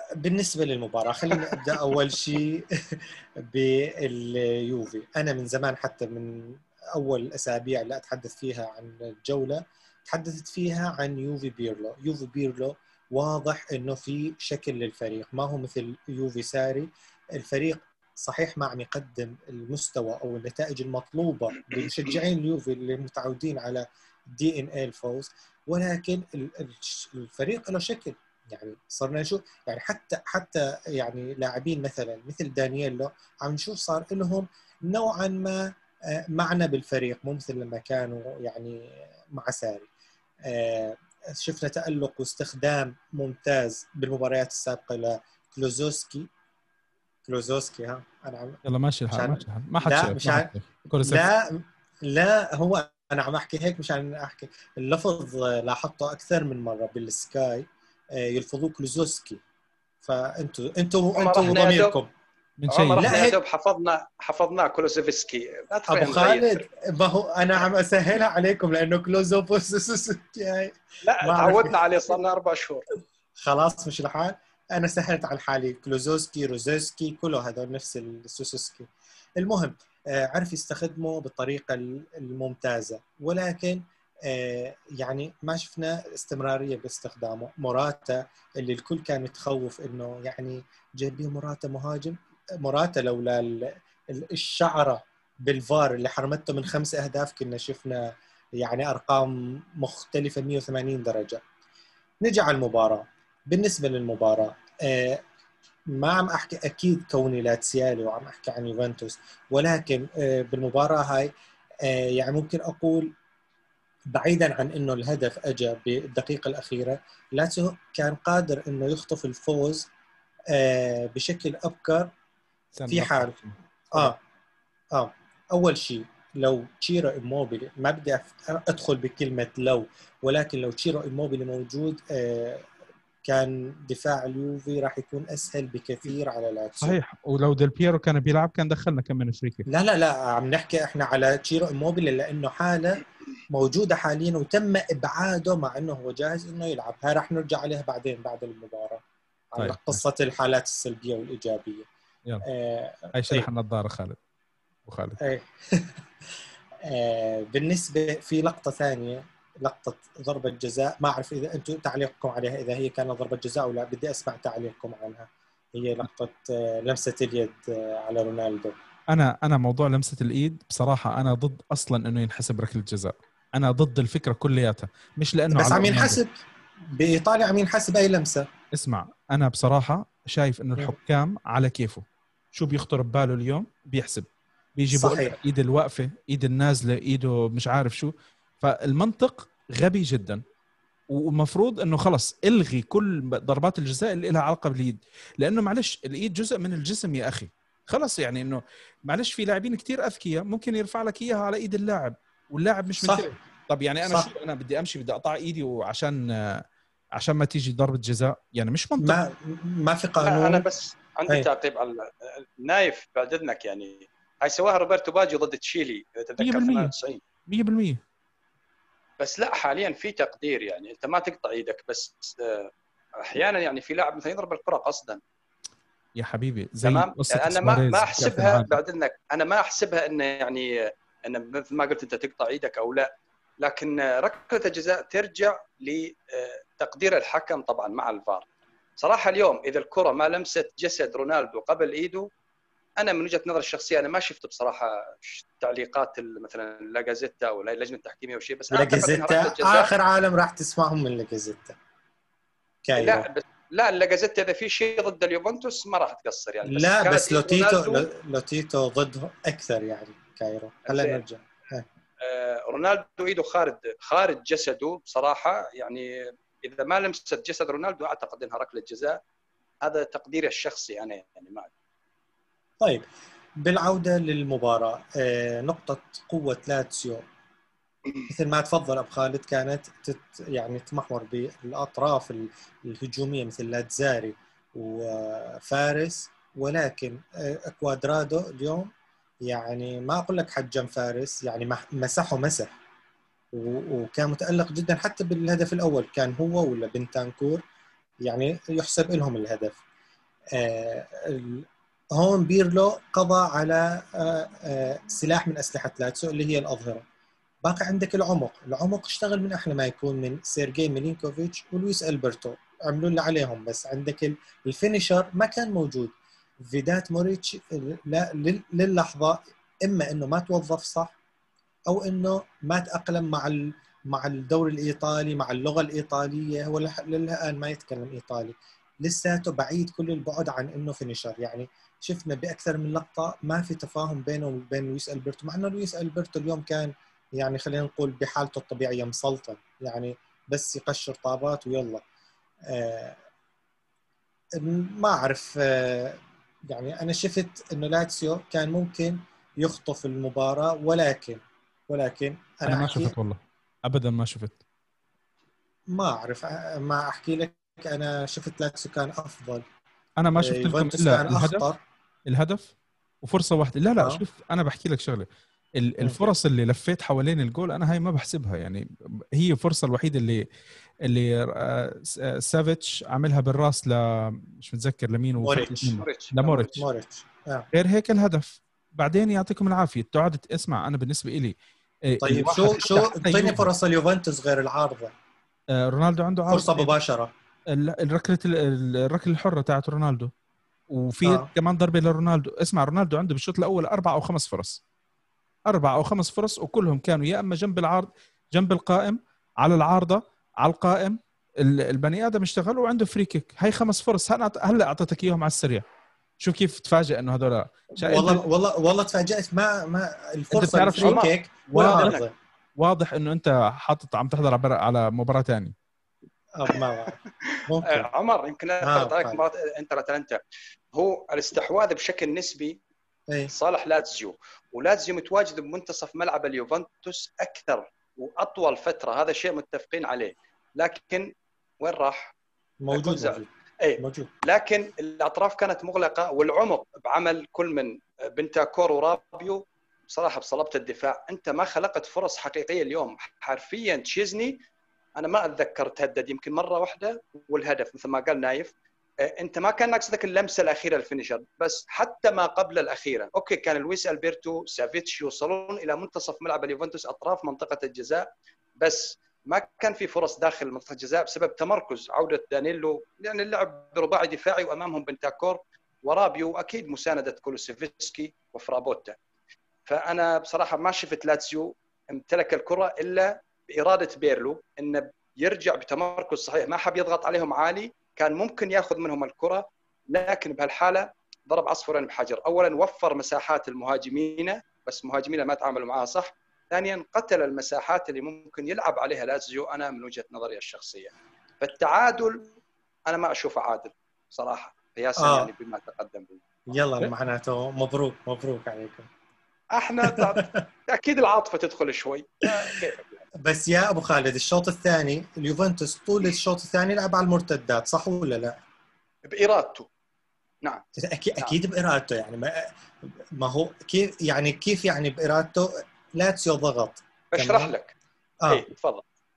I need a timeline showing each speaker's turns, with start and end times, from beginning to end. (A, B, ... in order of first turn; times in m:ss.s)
0:00.2-0:39.9 A
0:40.4-0:46.3 A
0:47.3-0:48.6 A
0:48.7-0:51.3 B
0:49.1-0:50.5 A
0:51.0-0:59.4 A
1:00.0-1:02.1 A
1:01.2-1:02.0 C
1:02.6-1:03.1 B
1:02.7-1:06.6 C
1:03.0-1:03.4 A
1:05.9-1:11.8 A
1:11.0-1:12.9 C
1:13.4-1:41.4 A
1:42.2-1:45.2 A
1:45.9-1:51.3 A
1:51.8-1:53.1 A
1:54.1-1:59.9 A
2:00.5-2:02.1 A
2:02.8-2:04.1 B
2:02.9-2:03.3 A
2:04.9-2:12.7 A
2:13.2-2:17.0 A
2:16.8-2:19.7 B
2:19.7-2:31.9 A
2:29.6-2:30.0 B
2:32.4-2:33.5 A
2:33.2-2:34.2 B
2:34.9-2:35.2 B
2:35.2-2:36.0 A
2:36.8-2:48.8 A
2:49.1-2:56.2 B
2:55.5-2:56.3 A
2:56.9-2:58.5 A
2:58.7-3:10.4 B
3:04.9-3:05.4 A
3:11.1-3:26.6 B
3:23.0-3:23.3 A
3:24.0-3:24.3 A
3:27.2-3:29.2 B
3:29.0-3:30.6 A
3:30.2-3:37.2 C
3:36.4-3:36.9 B
3:37.5-3:38.0 B
3:39.2-3:45.2 C
3:46.2-3:48.8 B
3:46.8-3:53.1 C
3:53.6-3:58.5 C
3:59.0-4:02.3 C
4:03.0-4:09.9 C
4:08.7-4:11.8 A
4:12.8-4:13.3 A
4:13.0-4:18.1 C
4:16.7-4:21.9 A
4:20.9-4:21.2 C
4:22.2-4:29.2 C
4:29.8-4:31.7 C
4:32.8-4:33.1 A
4:33.6-4:37.2 A
4:38.3-4:48.9 A
4:49.4-4:52.7 A
4:53.5-4:57.6 A
4:58.2-4:59.8 A
5:00.5-5:07.0 A
5:07.6-5:21.2 A
5:21.9-5:42.0 A
5:42.7-5:43.2 A
5:44.6-5:53.2 A
5:52.7-5:54.6 B
5:55.9-5:59.6 A
6:00.2-6:01.6 B
6:00.4-6:01.8 A
6:02.3-6:05.3 B
6:05.8-6:10.4 B
6:11.1-6:16.8 B
6:15.4-6:16.0 A
6:15.9-6:16.7 C
6:16.6-6:17.7 A
6:17.7-6:23.7 B
6:22.2-6:25.1 A
6:25.7-6:26.9 B
6:26.5-6:27.3 A
6:27.7-6:30.3 B
6:30.9-6:34.8 B
6:31.2-6:31.5 A
6:35.7-6:45.8 B
6:46.4-6:48.4 B
6:48.0-6:52.3 A
6:50.5-6:52.2 B
6:51.0-6:52.3 C
6:52.8-6:55.7 B
6:56.6-6:58.1 A
6:57.4-7:00.4 C
6:58.8-6:59.4 A
7:00.9-7:02.8 C
7:03.5-7:12.4 C
7:12.8-7:13.5 A
7:12.9-7:24.6 C
7:14.0-7:14.3 A
7:25.2-7:38.3 C
7:38.8-7:49.2 C
7:49.9-8:12.4 C
8:13.1-8:16.4 C
8:15.2-8:15.5 A
8:16.7-8:19.1 A
8:19.7-8:23.3 C
8:20.0-8:20.6 A
8:23.4-8:28.6 A
8:29.3-8:29.9 C
8:31.0-8:37.7 A
8:37.3-8:37.9 C
8:38.5-8:39.0 C